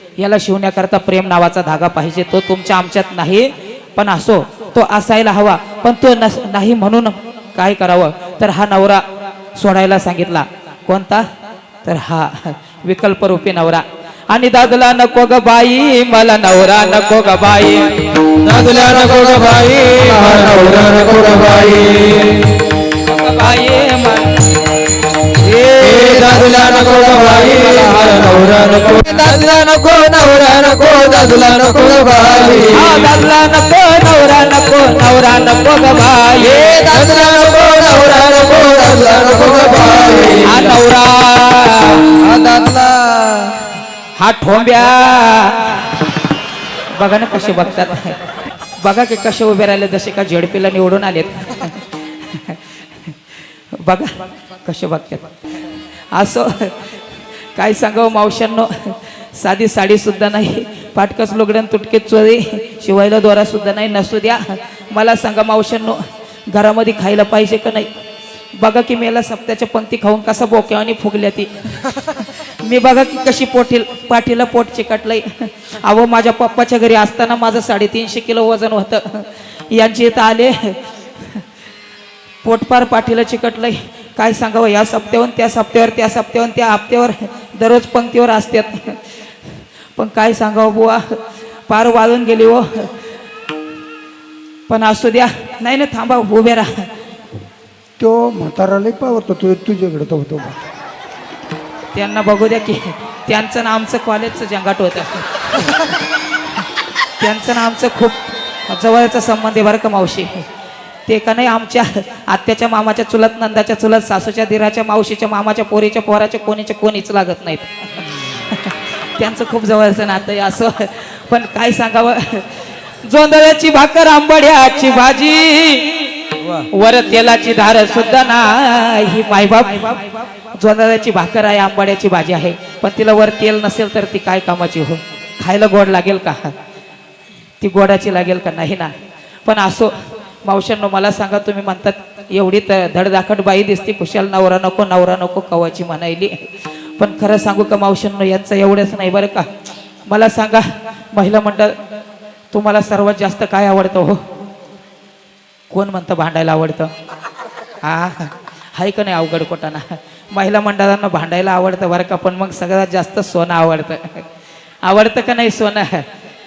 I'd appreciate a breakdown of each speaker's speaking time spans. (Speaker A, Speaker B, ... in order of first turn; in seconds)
Speaker A: 0.2-11.3, 11.8-18.4, 23.0-24.5, 29.2-29.6, 32.7-37.0, 40.4-42.2, 44.2-46.1, 47.0-48.2, 48.8-53.1, 53.7-55.4, 56.1-57.0, 57.5-67.9, 68.5-81.5, 82.4-89.2, 90.0-92.9, 94.7-96.9, 101.9-106.0, 107.2-110.5, 111.1-136.5, 137.6-149.5, 150.1-151.8, 152.5-154.2, 155.7-156.9, 157.8-164.2, 164.8-166.1
Speaker B: 18.3-22.5, 25.4-32.9, 36.5-40.7, 42.4-42.9
Speaker C: 98.0-100.6